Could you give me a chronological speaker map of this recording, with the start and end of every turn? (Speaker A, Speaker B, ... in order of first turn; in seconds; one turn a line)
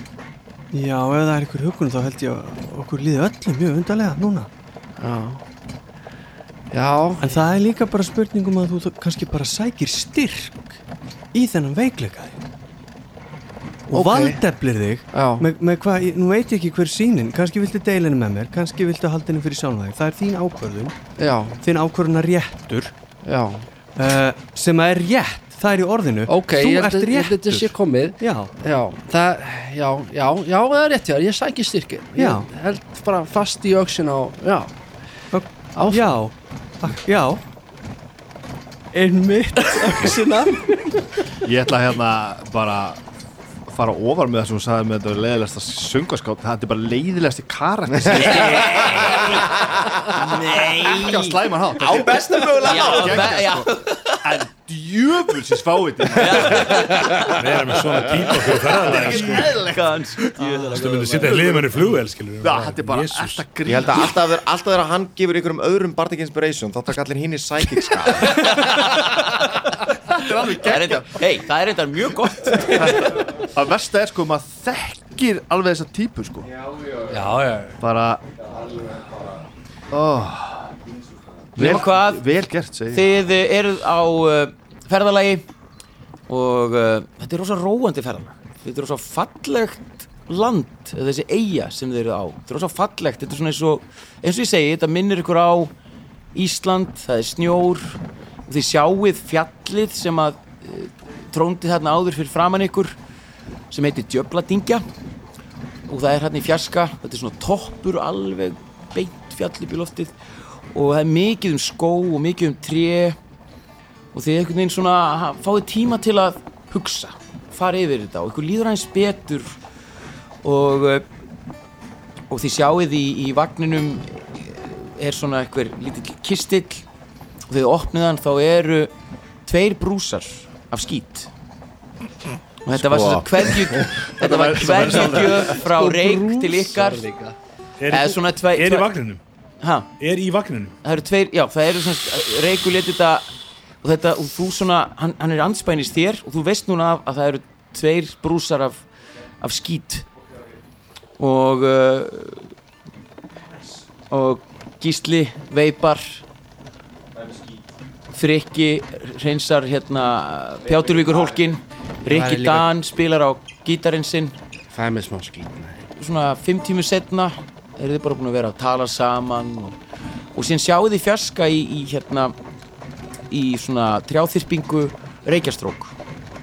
Speaker A: 0.7-4.5
Speaker B: 5.0-5.4
Speaker B: 6.7-7.4
Speaker A: 7.2-10.8
Speaker A: 11.3-12.4
Speaker A: 13.9-21.0
Speaker B: 13.9-14.4
Speaker B: 15.1-15.5
Speaker B: 21.2-21.6
Speaker A: 21.6-22.9
Speaker B: 23.2-23.7
Speaker A: 24.0-28.5
Speaker B: 26.3-34.7
Speaker A: 32.2-32.5
Speaker A: 35.3-37.4
Speaker B: 35.8-36.2
Speaker A: 38.9-41.0
Speaker C: 41.4-43.0
Speaker C: 43.7-49.1
Speaker D: 48.1-49.0
Speaker E: 48.1-49.5
Speaker E: 50.1-51.4
Speaker C: 50.7-56.9
Speaker D: 51.8-53.4
Speaker E: 52.0-54.4
Speaker E: 56.1-57.5
Speaker D: 56.9-57.3
Speaker F: 57.2-59.5
Speaker C: 58.6-60.3
Speaker E: 58.7-61.6
Speaker F: 60.7-63.4
Speaker C: 61.2-64.1
Speaker D: 63.6-68.5
Speaker E: 68.3-69.5
Speaker C: 70.1-71.2
Speaker E: 70.5-73.3
Speaker C: 72.7-76.5
Speaker E: 77.1-77.8
Speaker C: 77.8-78.2
Speaker D: 78.6-79.3
Speaker C: 79.9-80.7
Speaker C: 81.6-83.1
Speaker E: 81.6-82.2
Speaker E: 82.9-85.5
Speaker E: 86.3-95.7
Speaker E: 96.3-103.0
Speaker E: 103.7-104.8
Speaker E: 105.9-110.2
Speaker E: 110.7-113.2
Speaker E: 114.1-119.6
Speaker E: 120.4-121.0
Speaker E: 122.3-126.8
Speaker E: 127.5-128.9
Speaker E: 129.4-131.3
Speaker E: 132.7-137.1
Speaker D: 132.7-133.3
Speaker C: 134.2-136.0
Speaker B: 135.8-137.3
Speaker F: 137.8-139.2
Speaker E: 137.9-138.9
Speaker E: 139.6-139.9
Speaker F: 140.0-140.8
Speaker E: 140.8-143.3
Speaker E: 143.8-148.8
Speaker E: 149.4-150.1
Speaker E: 151.2-152.5
Speaker E: 154.1-156.2
Speaker D: 157.2-157.5
Speaker E: 158.1-164.4
Speaker D: 160.8-161.3
Speaker B: 162.1-162.7
Speaker B: 164.7-165.8
Speaker E: 166.0-169.8
Speaker E: 170.3-172.3
Speaker E: 173.3-175.9